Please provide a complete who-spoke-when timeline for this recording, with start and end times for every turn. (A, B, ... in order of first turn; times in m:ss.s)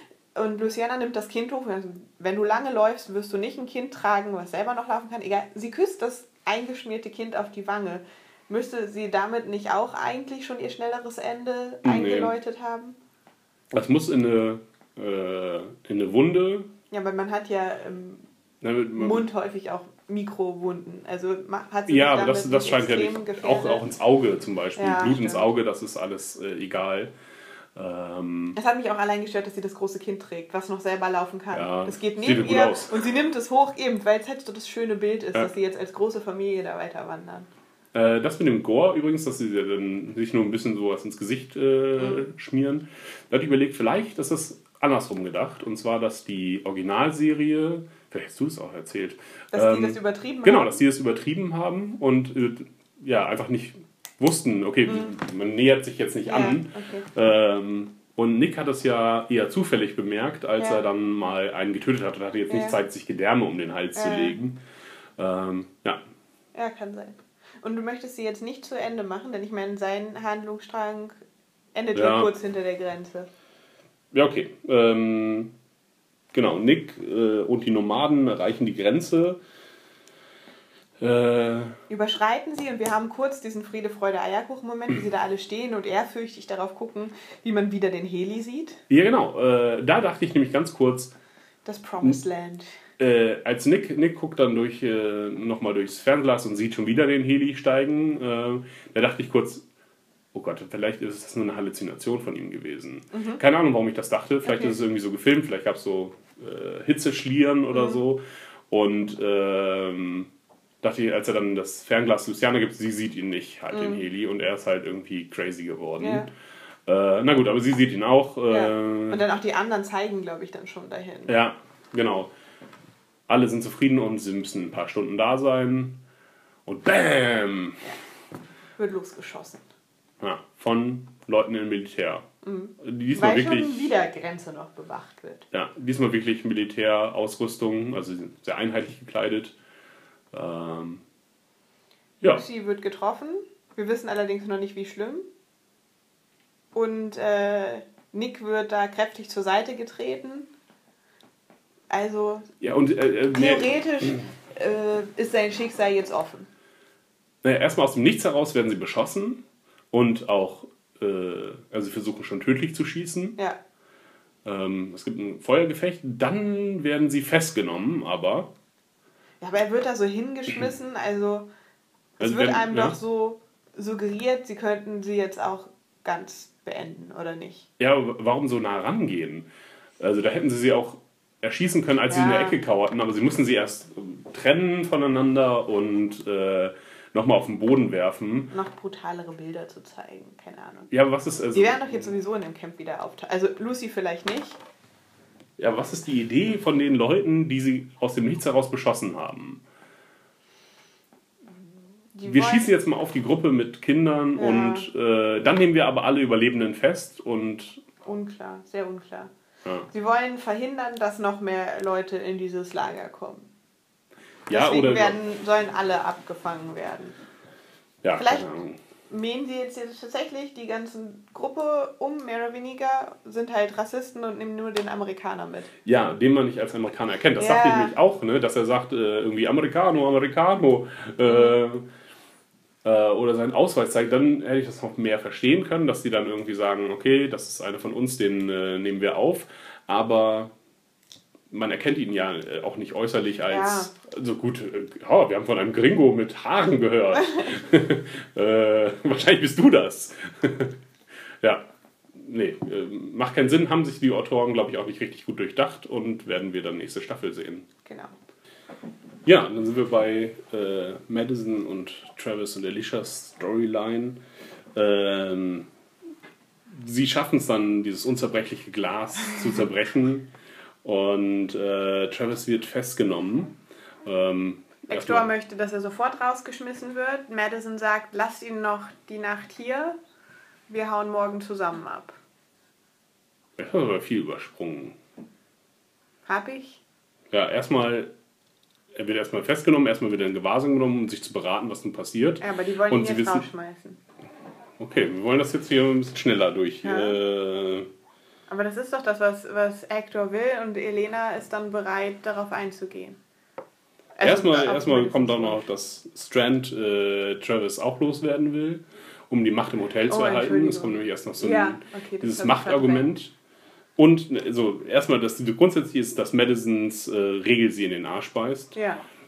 0:00.3-0:13.0 A
0:11.8-0:12.3 B
0:13.7-0:16.7 B
0:16.9-0:18.2 A
0:18.6-0:19.2 B
0:18.9-0:23.8 A
0:21.9-0:27.1 B
0:24.8-0:25.5 A
0:27.8-0:28.6 B
0:28.6-0:37.5 A
0:31.5-0:33.0 B
0:37.9-1:04.6 B
0:42.0-0:42.2 A
0:49.5-0:50.8 A
0:54.9-0:55.1 A
0:56.2-0:57.1 A
1:00.6-1:00.8 A
1:02.5-1:02.8 A
1:04.0-1:04.4 A
1:05.2-1:06.0 B
1:06.5-1:11.2 A
1:11.7-1:13.3 A
1:11.9-1:12.3 B
1:14.1-1:15.5 B
1:16.3-1:19.4 B
1:21.0-1:21.8 B
1:21.9-1:28.8 A
1:28.9-1:31.1 B
1:31.6-1:32.8 A
1:33.0-1:39.6 B
1:40.3-1:50.3 B
1:43.1-1:43.4 A
1:44.4-1:44.8 A
1:47.7-1:48.0 A
1:50.8-1:56.3 B
1:53.7-1:54.0 A
1:56.0-1:56.3 A
1:56.9-1:59.2 B
1:58.5-2:01.4 A
2:01.3-2:02.3 B
2:03.3-2:06.0 B
2:06.7-2:07.8 B
2:08.8-2:09.6 A
2:10.2-2:12.3 B
2:12.4-2:15.4 A
2:12.8-2:13.9 B
2:15.5-2:19.5 B
2:20.3-2:21.0 B
2:22.2-2:25.3 A
2:26.7-2:30.5 A
2:31.9-2:32.5 A
2:32.6-2:34.2 B
2:33.3-2:36.5 A
2:37.4-2:43.4 B
2:44.4-2:48.5 B
2:49.4-2:51.5 A
2:52.2-2:57.7 A
2:52.2-2:53.0 B
2:57.8-2:59.5 B
3:00.0-3:08.5 B
3:02.1-3:02.6 A
3:08.5-3:10.9 A
3:10.9-3:12.1 B
3:11.5-3:14.6 A
3:15.6-3:19.6 B
3:22.2-3:22.7 A
3:22.2-3:27.8 B
3:24.4-3:24.9 A
3:28.0-3:29.3 A
3:29.9-3:33.5 A
3:34.5-3:35.2 B
3:34.5-3:37.2 A
3:38.0-3:38.8 B
3:38.2-3:38.5 A
3:39.1-3:45.7 A
3:45.8-3:51.9 B
3:47.4-3:47.9 A
3:51.3-3:51.5 A
3:52.8-4:00.5 B
4:01.5-4:10.8 B
4:03.5-4:03.9 A
4:11.4-4:17.7 B
4:17.9-4:18.1 A
4:19.2-4:24.2 B
4:24.8-4:25.7 B
4:26.7-4:30.3 B
4:30.8-4:35.3 B
4:34.9-4:40.0 A
4:40.7-4:42.2 A
4:43.6-4:45.0 B
4:46.3-4:46.8 A
4:47.3-4:48.1 B
4:48.9-4:53.5 B
4:52.4-4:54.0 A
4:54.8-4:57.9 B
4:56.8-4:57.2 A
4:58.5-5:03.2 A
5:04.2-5:05.6 A
5:04.2-5:13.3 B
5:10.1-5:13.1 A
5:14.0-5:18.8 B
5:18.7-5:19.0 A